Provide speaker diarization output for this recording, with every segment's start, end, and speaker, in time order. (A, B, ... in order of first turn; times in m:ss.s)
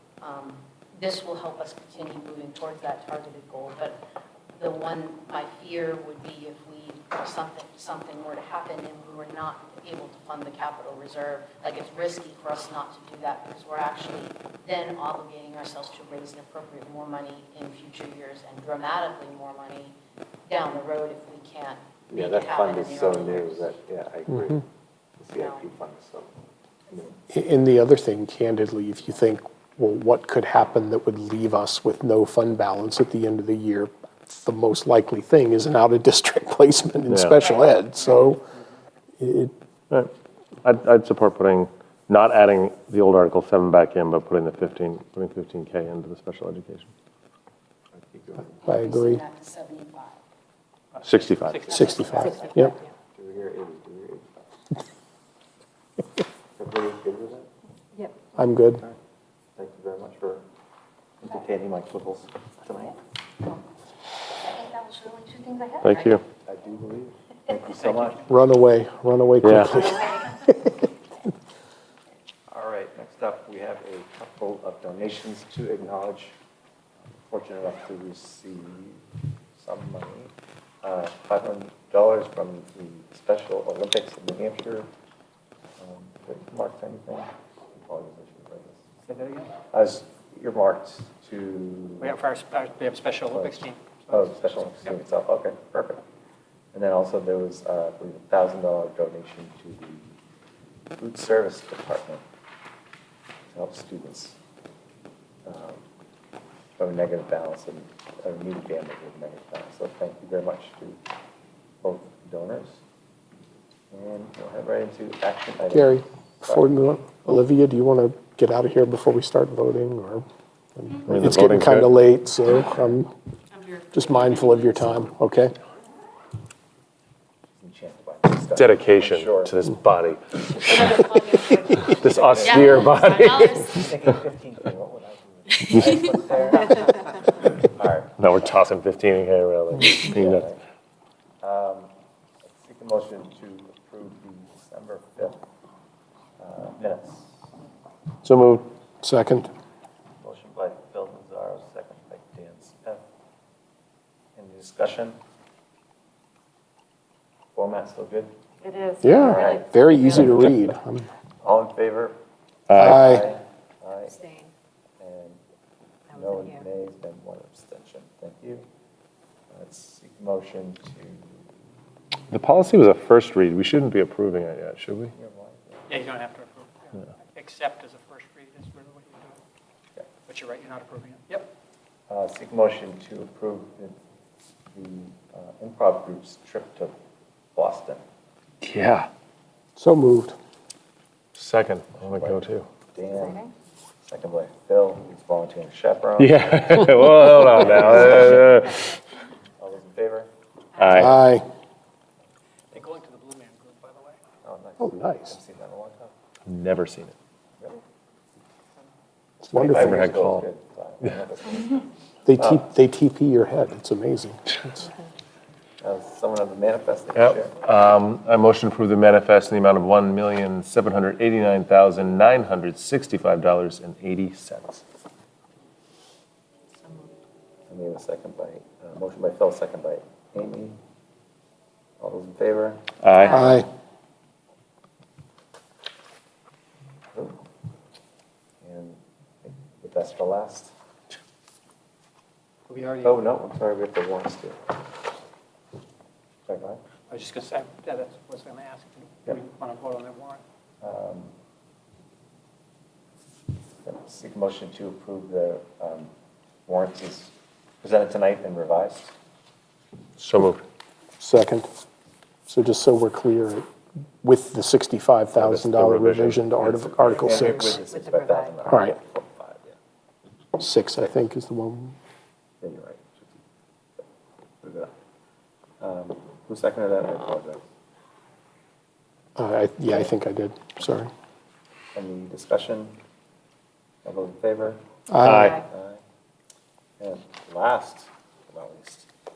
0:00.2-0:04.0 A
0:04.6-0:23.8 A
0:22.1-0:24.6 B
0:25.2-0:26.4 B
0:25.4-0:25.6 A
0:26.9-0:27.2 B
0:27.3-0:38.4 C
0:37.1-0:37.4 D
0:37.4-0:38.3 A
0:39.2-0:39.5 C
0:40.6-0:46.9 D
0:47.9-0:48.6 B
0:48.6-0:50.2 A
0:48.6-0:49.2 C
0:51.0-0:51.7 D
0:51.4-0:52.4 E
0:51.7-0:52.7 A
0:51.7-0:52.7 C
0:51.7-0:52.5 B
0:53.1-0:54.4 B
0:56.6-0:57.5 B
0:58.3-0:58.8 C
0:59.6-1:00.4 B
1:01.2-1:03.0 B
1:05.8-1:06.2 D
1:06.4-1:08.3 B
1:07.7-1:08.2 E
1:08.3-1:10.5 C
1:09.4-1:09.8 D
1:12.5-1:16.4 B
1:17.1-1:19.0 B
1:19.6-1:24.9 B
1:25.8-1:28.8 B
1:29.0-1:29.5 E
1:29.7-1:32.2 B
1:32.0-1:34.9 E
1:33.3-1:36.0 B
1:36.7-1:40.2 B
1:41.0-1:42.2 B
1:43.5-1:44.4 B
1:45.4-1:45.8 B
1:46.8-1:51.0 B
1:51.8-1:52.8 B
1:53.9-1:56.7 B
1:55.7-2:03.1 C
2:01.1-2:02.0 D
2:03.9-2:05.5 C
2:07.6-2:09.5 B
2:08.5-2:13.7 D
2:11.7-2:18.6 B
2:12.4-2:13.8 A
2:18.2-2:20.5 D
2:19.8-2:20.6 B
2:21.4-2:21.9 B
2:22.4-2:25.4 B
2:26.4-2:27.4 B
2:28.2-2:29.5 C
2:30.2-2:33.0 B
2:34.4-2:35.2 B
2:37.5-2:40.4 B
2:39.0-2:41.1 C
2:41.4-2:42.2 B
2:42.7-2:43.0 D
2:42.7-2:44.2 B
2:42.8-2:43.2 C
2:44.2-2:44.5 F
2:45.0-2:45.4 B
2:46.1-2:48.6 B
2:46.1-2:46.6 F
2:49.5-2:51.6 B
2:52.3-2:55.1 D
2:55.1-2:56.0 B
2:55.9-2:59.4 E
3:00.3-3:01.5 E
3:02.1-3:03.9 B
3:04.7-3:06.9 B
3:07.5-3:08.0 B
3:08.6-3:09.1 D
3:09.8-3:10.4 C
3:11.3-3:12.6 D
3:11.9-3:13.4 B
3:14.0-3:16.8 B
3:16.2-3:18.8 D
3:17.6-3:18.8 B
3:19.6-3:20.3 B
3:20.8-3:21.2 D
3:20.9-3:21.4 C
3:22.7-3:24.2 E
3:24.4-3:26.1 B
3:24.8-3:25.4 C
3:26.4-3:27.1 D
3:29.4-3:30.1 C
3:29.5-3:31.8 B
3:29.7-3:30.4 D
3:32.2-3:34.9 C
3:32.4-3:32.6 B
3:35.8-3:37.6 B
3:37.1-3:44.8 D
3:47.7-3:50.8 B
3:52.0-3:52.8 B
3:53.0-3:53.5 D
3:53.3-3:53.7 C
3:57.1-3:57.4 B
3:58.6-4:00.7 B
4:02.7-4:03.2 E
4:03.0-4:04.8 B
4:06.5-4:06.8 B
4:07.1-4:10.4 E
4:10.8-4:11.3 B
4:13.8-4:16.1 B
4:16.7-4:19.1 B
4:20.2-4:20.6 D
4:21.2-4:21.7 C
4:22.5-4:23.6 C
4:24.2-4:27.8 C
4:25.3-4:27.2 D
4:27.0-4:29.8 B
4:27.3-4:28.6 F
4:28.6-4:29.0 C
4:30.6-4:31.9 C
4:32.6-4:33.4 B
4:34.6-4:34.9 B
4:35.8-4:37.6 B
4:39.4-4:41.1 C
4:41.9-4:43.0 B
4:44.0-4:44.8 B
4:45.1-4:45.6 C
4:45.2-4:45.6 D
4:45.4-4:46.0 B
4:47.0-4:49.1 B